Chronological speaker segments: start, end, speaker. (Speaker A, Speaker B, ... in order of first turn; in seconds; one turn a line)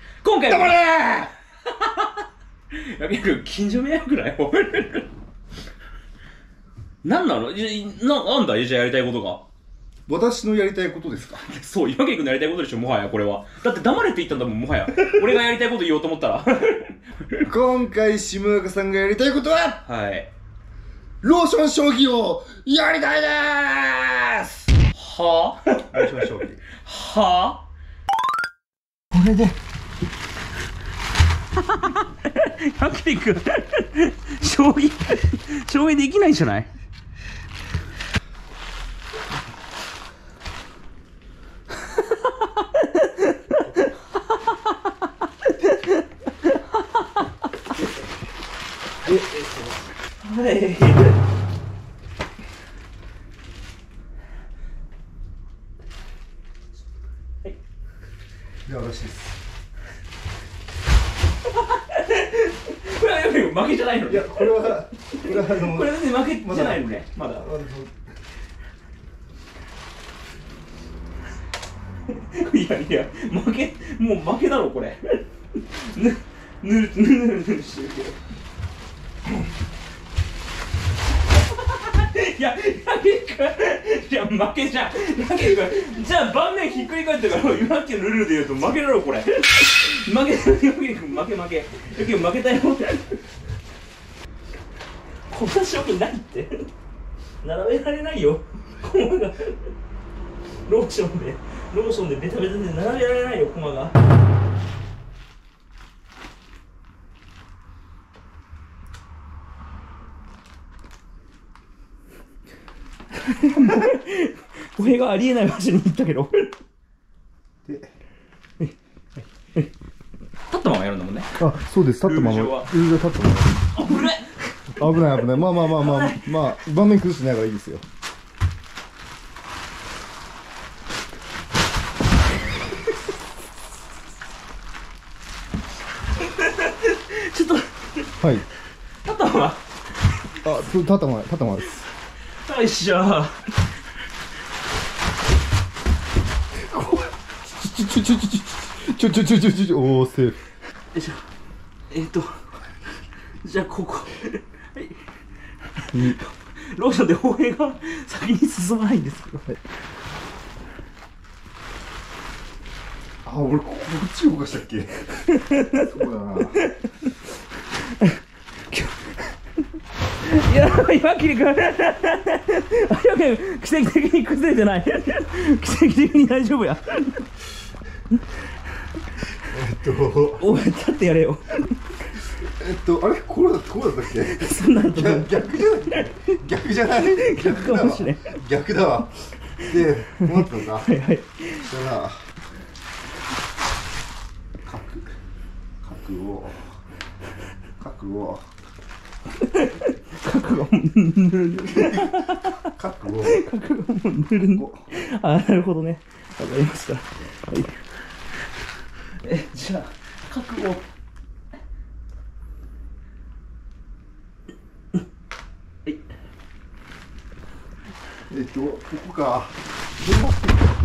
Speaker A: 0.2-2.1
Speaker B: 0.5-1.0
Speaker A: 2.7-5.1
Speaker A: 7.0-9.4
Speaker B: 10.1-11.4
Speaker A: 11.3-17.4
Speaker B: 17.4-19.8
Speaker A: 19.9-20.3
Speaker B: 21.2-24.7
Speaker A: 24.9-27.6
Speaker B: 25.9-26.6
Speaker A: 29.1-29.6
Speaker A: 31.5-36.7
Speaker A: 41.8-47.8
Speaker A: 49.0-51.2
Speaker B: 58.7-59.4
Speaker A: 61.5-67.5
Speaker B: 64.1-68.0
Speaker A: 72.1-78.2
Speaker A: 81.4-93.2
Speaker A: 95.3-96.7
Speaker A: 97.4-99.7
Speaker A: 100.7-104.0
Speaker A: 113.1-116.5
Speaker B: 117.7-117.9
Speaker A: 120.5-121.4
Speaker B: 121.4-123.7
Speaker A: 122.0-122.7
Speaker A: 123.8-124.9
Speaker B: 124.8-127.8
Speaker A: 125.4-126.5
Speaker A: 136.2-138.1
Speaker B: 138.2-138.5
Speaker A: 139.1-139.6
Speaker B: 140.4-141.8
Speaker A: 142.4-143.6
Speaker B: 146.6-150.4
Speaker A: 150.9-151.2
Speaker A: 151.9-152.4
Speaker A: 153.4-154.9
Speaker A: 155.8-159.6
Speaker B: 163.2-165.1
Speaker A: 165.3-165.9
Speaker B: 165.7-166.6
Speaker A: 166.4-167.1
Speaker A: 167.8-169.3
Speaker A: 170.2-177.3
Speaker A: 178.1-178.4
Speaker B: 179.4-180.6
Speaker A: 180.4-181.8
Speaker B: 182.3-191.0
Speaker A: 184.2-186.3
Speaker A: 187.0-188.3
Speaker A: 190.7-191.7
Speaker B: 191.6-192.3
Speaker B: 194.6-195.1
Speaker B: 195.8-196.8
Speaker B: 197.8-198.5
Speaker A: 199.4-208.0
Speaker B: 201.7-203.4
Speaker B: 204.5-204.8
Speaker A: 209.2-210.8
Speaker B: 218.3-220.7